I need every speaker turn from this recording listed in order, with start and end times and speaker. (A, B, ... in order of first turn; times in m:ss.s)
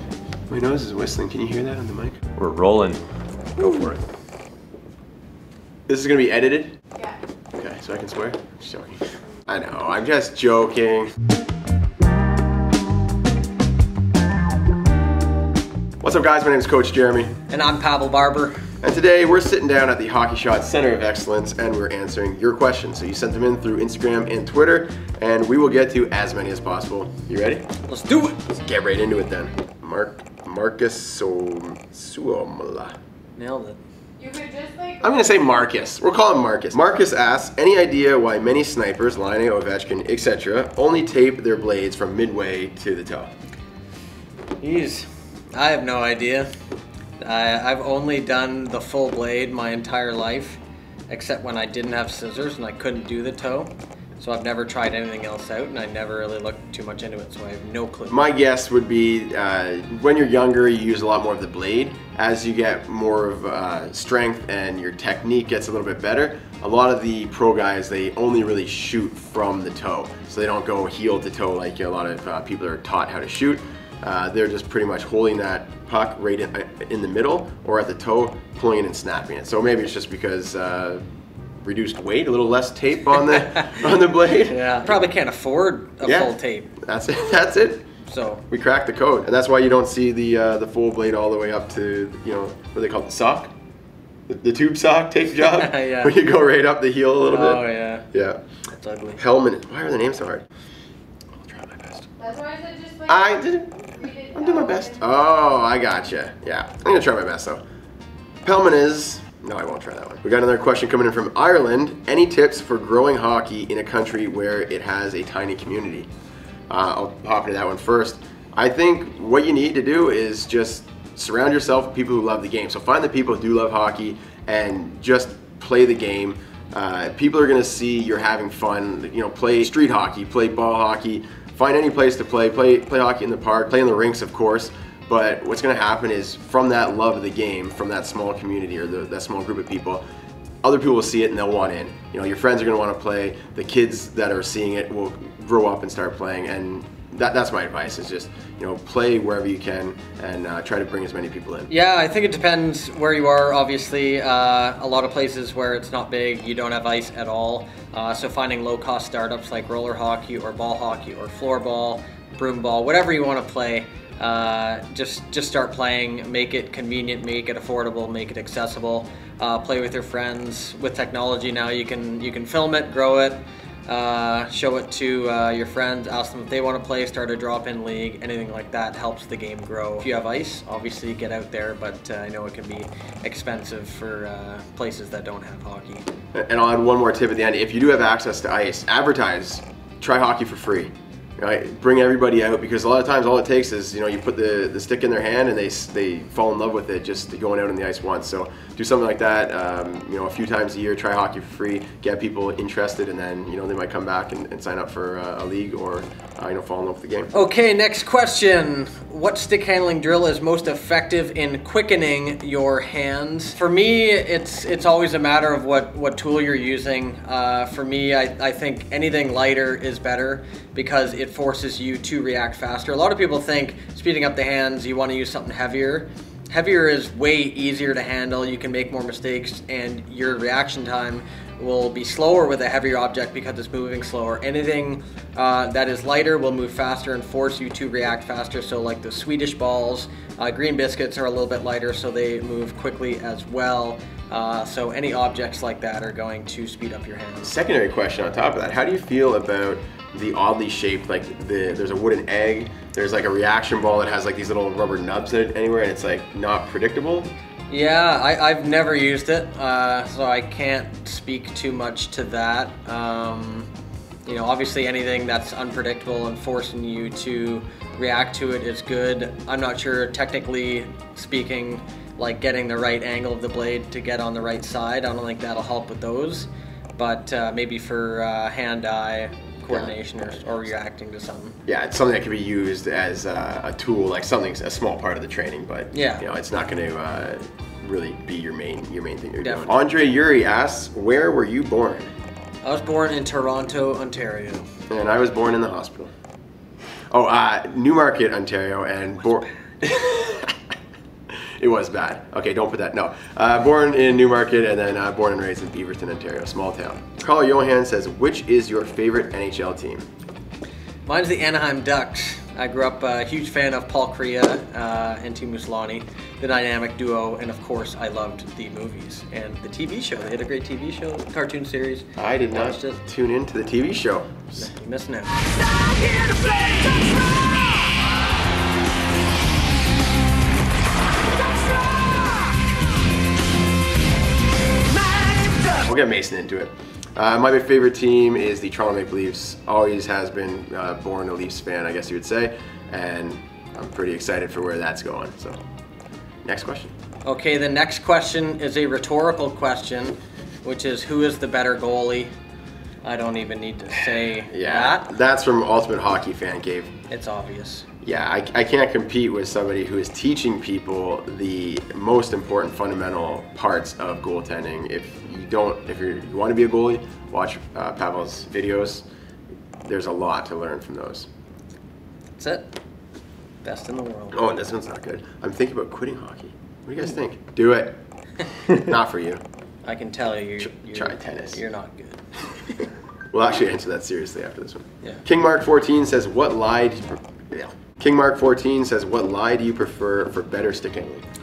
0:00.5-0:03.0 A
0:03.6-0:04.0 A
0:05.9-0:06.8 A
0:07.6-0:11.1 A
0:16.0-0:17.4 A
0:17.5-0:18.6 B
0:18.8-0:27.7 A
0:27.9-0:28.4 B
0:28.4-0:33.0 A
0:33.4-0:33.8 B
0:34.2-0:35.1 C
0:35.0-0:43.3 A
0:44.6-0:46.5 B
0:47.2-0:58.3 B
0:58.1-1:21.0 A
1:21.6-1:24.6 A
1:23.3-1:23.8 B
1:24.4-1:26.7 B
1:26.0-1:27.9 A
1:28.0-1:28.4 B
1:28.5-1:33.5 A
1:34.3-1:38.4 A
1:35.4-1:36.1 B
1:37.3-1:38.0 B
1:38.7-1:39.2 B
1:39.2-1:40.4 A
1:41.4-1:42.1 A
1:42.2-1:45.0 C
1:43.1-1:47.6 A
1:48.4-1:56.1 A
1:56.7-2:20.0 A
2:20.6-2:31.7 A
2:31.7-3:06.1 B
3:06.3-3:27.3 A
3:27.3-4:07.5 B
4:07.4-4:17.3 A
4:17.7-4:23.7 B
4:24.2-4:41.6 B
4:39.7-4:39.9 A
4:41.6-4:52.1 A
4:45.9-4:46.2 B
4:49.4-4:49.7 B
4:52.6-4:54.7 B
4:54.9-4:56.1 A
4:57.1-5:00.6 A
5:01.3-5:10.1 A
5:11.0-5:23.0 B
5:22.2-5:24.7 A
5:24.6-5:26.8 B
5:35.6-5:45.6 A
5:46.4-5:46.9 A
5:47.2-5:52.3 B
5:53.0-5:55.1 B
5:54.5-5:56.9 A
5:57.1-5:57.9 B
5:58.0-6:09.0 A
6:09.8-6:11.3 A
6:12.4-6:12.7 B
6:13.6-6:14.4 B
6:14.3-6:18.0 A
6:18.6-6:19.4 A
6:19.8-6:22.8 B
6:20.6-6:21.6 A
6:23.3-6:31.2 A